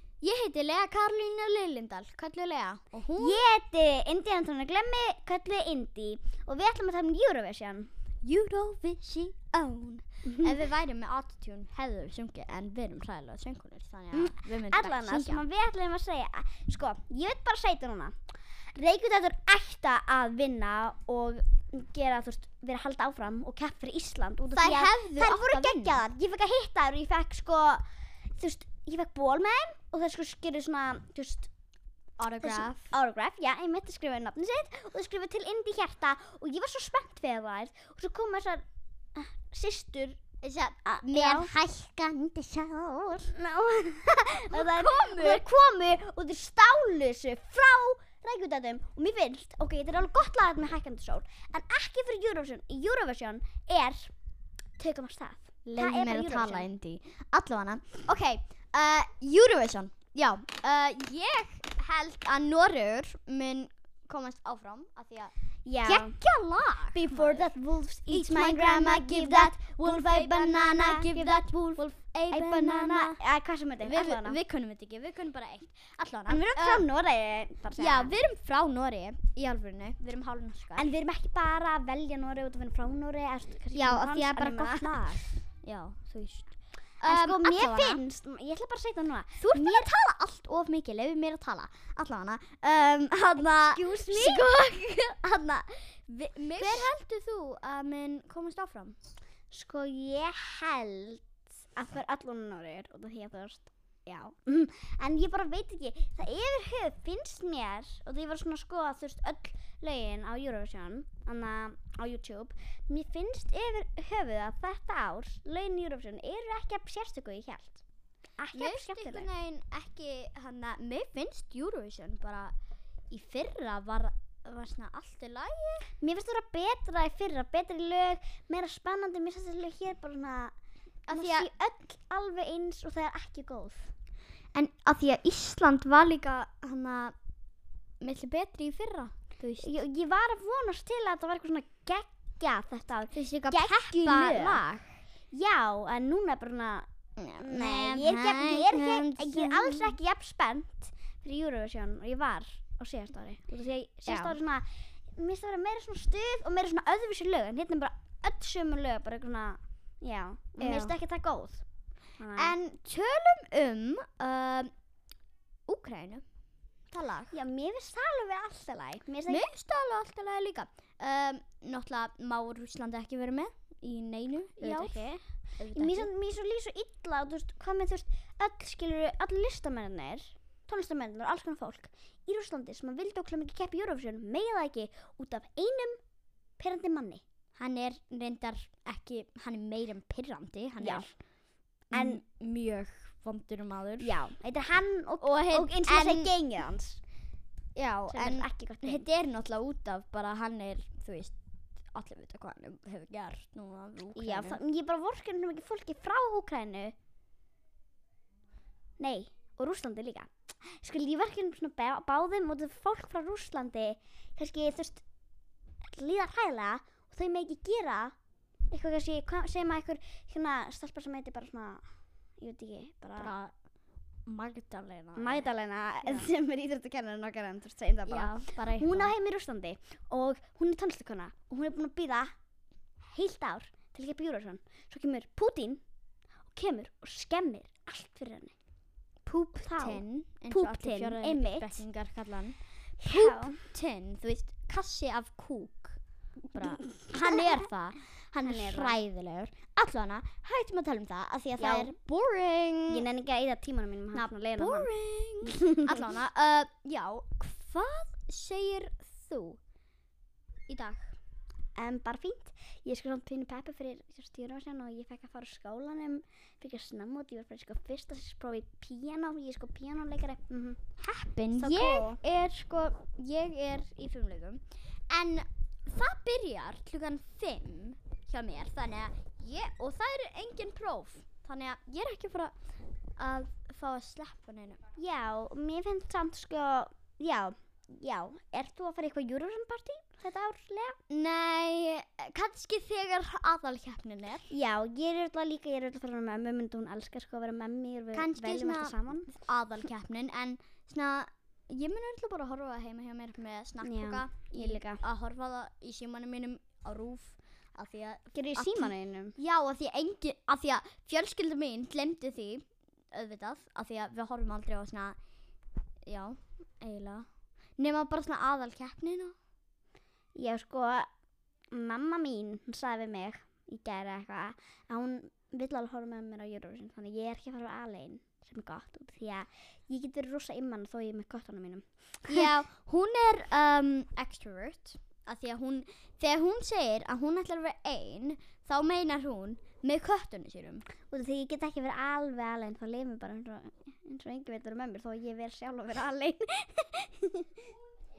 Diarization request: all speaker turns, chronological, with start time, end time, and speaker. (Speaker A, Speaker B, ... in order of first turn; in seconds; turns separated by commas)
Speaker A: 0.2-3.4, Speaker B: 3.1-7.9, Speaker A: 8.2-15.4, Speaker B: 10.3-10.5, Speaker B: 14.1-18.1, Speaker B: 18.7-27.8, Speaker A: 24.5-26.0, Speaker B: 28.4-31.5, Speaker A: 32.2-33.0, Speaker B: 32.4-40.2, Speaker A: 40.4-43.3, Speaker B: 40.8-41.5, Speaker B: 43.3-54.1, Speaker A: 44.5-45.4, Speaker B: 54.8-56.7, Speaker A: 55.6-67.5, Speaker B: 65.6-66.2, Speaker B: 66.9-74.4, Speaker A: 68.1-73.2, Speaker A: 73.8-76.8, Speaker B: 76.3-78.2, Speaker A: 77.8-80.9, Speaker B: 80.8-85.3, Speaker A: 83.7-88.0, Speaker B: 87.0-89.9, Speaker A: 89.4-99.0, Speaker B: 93.7-94.5, Speaker B: 96.6-96.9, Speaker B: 99.5-117.8, Speaker B: 118.4-119.3, Speaker A: 118.5-122.5, Speaker A: 123.1-125.9, Speaker B: 126.0-130.5, Speaker A: 131.1-131.5, Speaker B: 131.1-133.9, Speaker A: 134.5-137.1, Speaker A: 138.0-139.7, Speaker B: 139.6-144.6, Speaker A: 143.1-144.9, Speaker B: 145.3-146.9, Speaker A: 147.2-149.9, Speaker B: 147.4-161.6, Speaker A: 154.1-154.4, Speaker A: 160.6-160.9, Speaker B: 162.2-162.5, Speaker A: 162.3-164.7, Speaker A: 165.7-166.2, Speaker A: 166.9-167.3, Speaker B: 167.3-169.5, Speaker A: 169.3-175.1, Speaker B: 174.6-175.2, Speaker A: 175.6-176.1, Speaker B: 175.7-186.0, Speaker B: 186.6-187.2, Speaker A: 187.6-191.1, Speaker B: 190.8-191.1, Speaker A: 191.9-194.1, Speaker B: 191.9-192.2, Speaker B: 194.0-197.0, Speaker A: 195.2-196.3, Speaker A: 197.7-201.3, Speaker B: 198.1-199.1, Speaker A: 201.9-204.6, Speaker B: 204.2-206.9, Speaker B: 209.0-215.0, Speaker B: 215.8-218.2, Speaker B: 218.7-221.8, Speaker B: 222.4-223.3, Speaker A: 223.2-223.5, Speaker A: 224.2-225.5, Speaker B: 225.1-232.3, Speaker A: 226.0-226.3, Speaker A: 228.1-229.1, Speaker B: 233.1-235.8, Speaker B: 236.5-238.5, Speaker A: 239.2-246.0, Speaker B: 239.6-241.8, Speaker B: 243.0-243.6, Speaker A: 246.5-253.0, Speaker B: 246.9-247.6, Speaker B: 248.4-249.0, Speaker B: 251.6-251.9, Speaker B: 252.9-254.9, Speaker A: 254.1-259.6, Speaker B: 255.4-256.0, Speaker A: 260.7-261.1, Speaker B: 261.8-270.8, Speaker A: 271.0-282.5, Speaker B: 271.5-272.2, Speaker A: 283.2-284.8, Speaker B: 284.9-291.0, Speaker A: 291.1-294.5, Speaker B: 294.5-299.3, Speaker A: 298.1-315.2, Speaker B: 303.8-305.0, Speaker B: 308.3-309.4, Speaker A: 316.0-319.3, Speaker B: 320.3-321.1, Speaker B: 321.7-332.5, Speaker A: 332.3-340.9, Speaker B: 341.1-347.5